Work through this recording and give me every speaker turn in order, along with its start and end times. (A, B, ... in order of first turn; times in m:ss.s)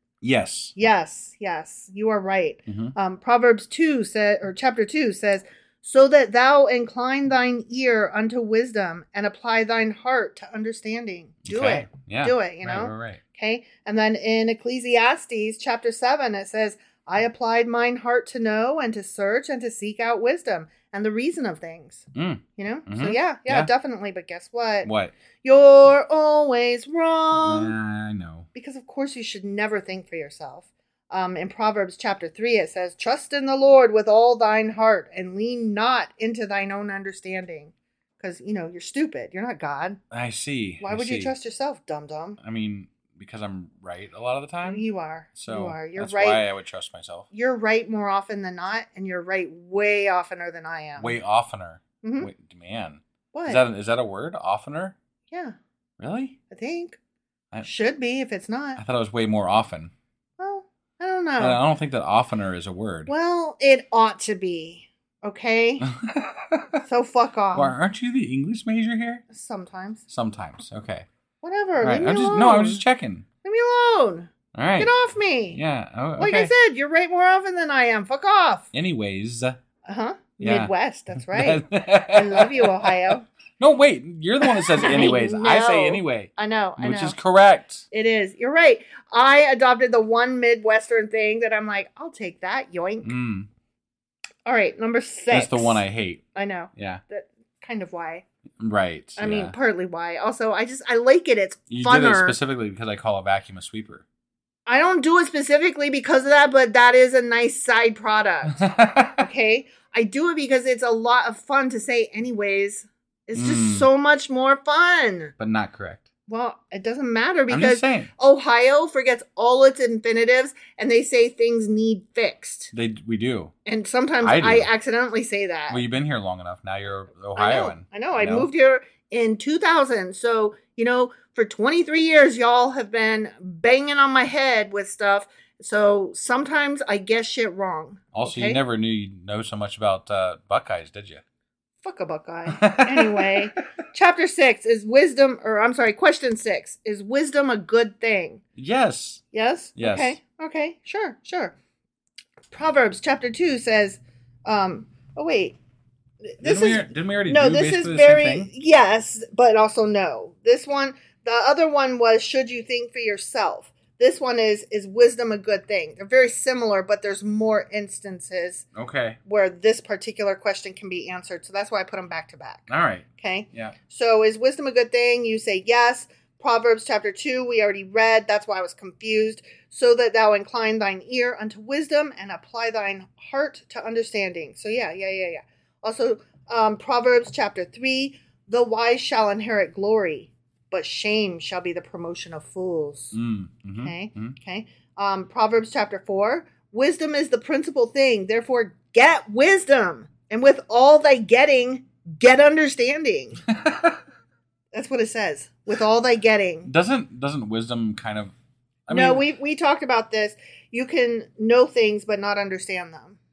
0:00.2-0:00.8 A
0:00.8-0:24.9 B
0:02.7-0:03.0 A
0:11.4-0:13.2 A
0:22.2-0:23.7 A
0:24.8-0:25.2 A
0:25.4-0:27.7 B
0:27.4-0:28.5 A
0:28.5-0:40.0 B
0:40.1-0:41.3 A
0:40.8-0:42.4 B
0:42.4-0:44.8 A
0:44.6-0:46.5 B
0:45.4-0:47.3 A
0:47.3-0:51.2 B
0:51.0-0:55.0 A
0:52.0-0:52.3 B
0:53.3-0:53.6 B
0:55.3-0:55.6 B
0:56.0-0:56.4 A
0:56.5-0:57.0 B
0:57.6-0:58.8 B
0:58.8-0:59.9 A
1:00.4-1:01.6 B
1:01.4-1:03.1 A
1:03.1-1:05.9 B
1:05.8-1:06.8 A
1:06.8-1:07.8 B
1:07.5-1:09.2 A
1:09.3-1:10.0 B
1:10.1-1:11.1 A
1:11.4-1:12.8 B
1:11.8-1:13.3 A
1:13.4-1:15.6 B
1:14.5-1:15.0 A
1:15.5-1:16.5 A
1:16.2-1:18.7 B
1:18.7-1:19.6 A
1:19.8-1:23.3 B
1:20.4-1:27.9 A
1:24.4-1:27.2 B
1:27.9-1:33.1 B
1:33.0-1:33.5 A
1:34.5-1:38.2 B
1:35.3-1:36.2 A
1:36.8-1:37.0 A
1:38.6-1:39.6 A
1:39.2-1:42.4 B
1:41.7-1:44.0 A
1:44.7-1:55.3 B
1:48.5-1:49.3 A
1:53.4-1:53.9 A
1:55.4-1:56.1 A
1:56.3-2:02.7 B
1:57.5-1:58.1 A
2:02.7-2:03.5 A
2:03.6-2:05.9 B
2:04.2-2:04.7 A
2:05.7-2:08.5 A
2:07.4-2:18.6 B
2:18.1-2:21.2 A
2:21.8-2:28.4 B
2:22.5-2:23.5 A
2:28.6-2:29.2 A
2:29.3-2:31.6 B
2:29.8-2:30.2 A
2:32.5-2:35.6 B
2:36.2-2:48.7 B
2:36.4-2:38.5 A
2:48.7-2:49.2 A
2:49.2-3:13.2 B
2:52.7-2:53.8 A
3:13.1-3:14.4 A
3:13.7-3:23.4 B
3:23.5-3:24.0 A
3:24.7-3:26.7 B
3:26.6-3:28.3 A
3:28.9-3:29.3 A
3:28.9-3:33.2 B